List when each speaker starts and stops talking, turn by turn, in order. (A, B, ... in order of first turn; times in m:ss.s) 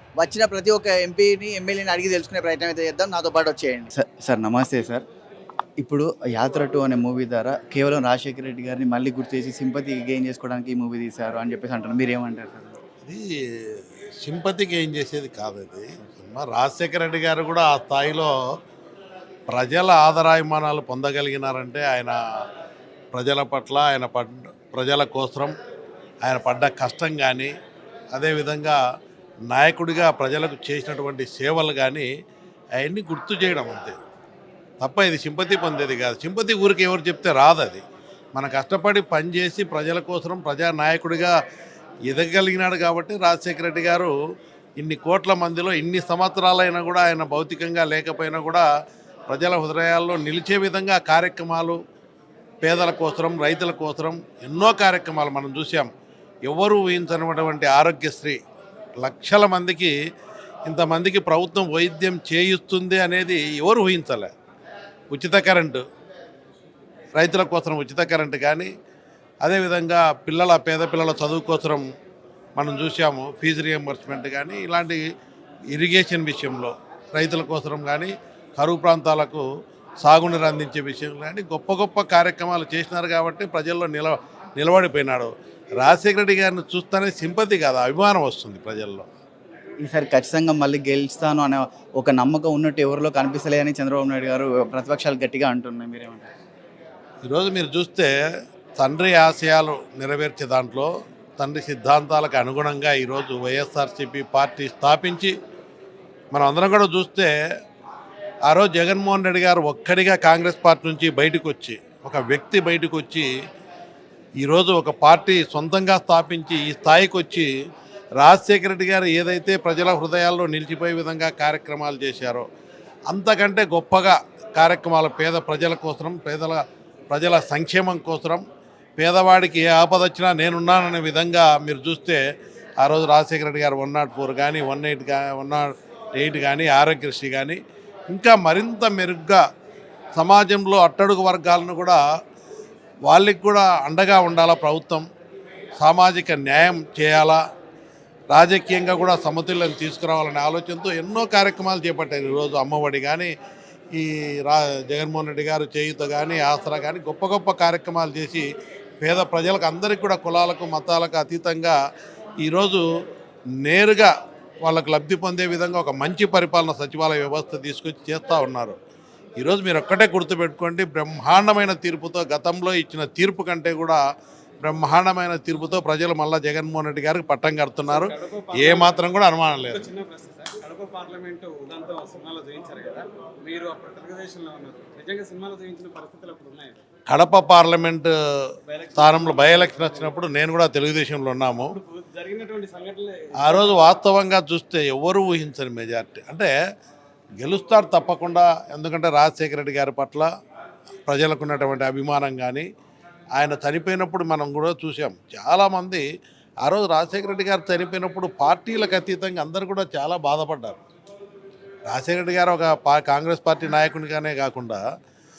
0:00.2-0:05.0 A
0:05.8-0:12.8 A
0:13.0-0:18.3 B
0:19.5-0:22.2 B
0:23.1-0:25.6 B
0:26.2-0:27.5 B
0:28.1-0:28.8 B
0:29.5-0:32.1 B
0:32.8-0:34.0 B
0:34.8-0:37.8 B
0:38.3-0:41.3 B
0:42.1-0:44.1 B
0:44.8-0:48.6 B
0:49.3-0:51.8 B
0:52.6-0:55.9 B
0:56.4-0:58.4 B
0:59.0-0:59.9 B
1:00.7-1:04.3 B
1:05.1-1:05.8 B
1:07.2-1:08.7 B
1:09.4-1:11.9 B
1:12.6-1:15.0 B
1:15.7-1:19.4 B
1:20.0-1:29.1 B
1:29.8-1:36.3 A
1:37.2-1:38.1 B
1:38.8-1:45.3 B
1:46.3-1:47.3 B
1:48.5-1:53.3 B
1:54.4-1:57.5 B
1:58.2-2:02.4 B
2:03.1-2:08.4 B
2:09.0-2:12.2 B
2:12.8-2:19.4 B
2:20.2-2:22.0 B
2:23.1-2:25.1 B
2:25.8-2:27.4 B
2:28.3-2:33.3 B
2:33.9-2:38.5 B
2:39.0-2:41.8 B
2:42.4-2:42.8 B
2:43.6-2:44.1 B
2:44.6-2:48.8 B
2:49.4-2:54.0 B
2:54.6-2:59.9 B
2:58.1-2:58.8 C
2:59.8-3:06.8 C
3:07.1-3:08.1 B
3:08.9-3:09.6 C
3:08.9-3:11.8 B
3:12.2-3:13.1 C
3:13.4-3:16.5 B
3:17.4-3:20.3 B
3:21.1-3:22.7 B
3:23.4-3:26.0 B
3:26.6-3:30.8 B
3:31.9-3:34.8 B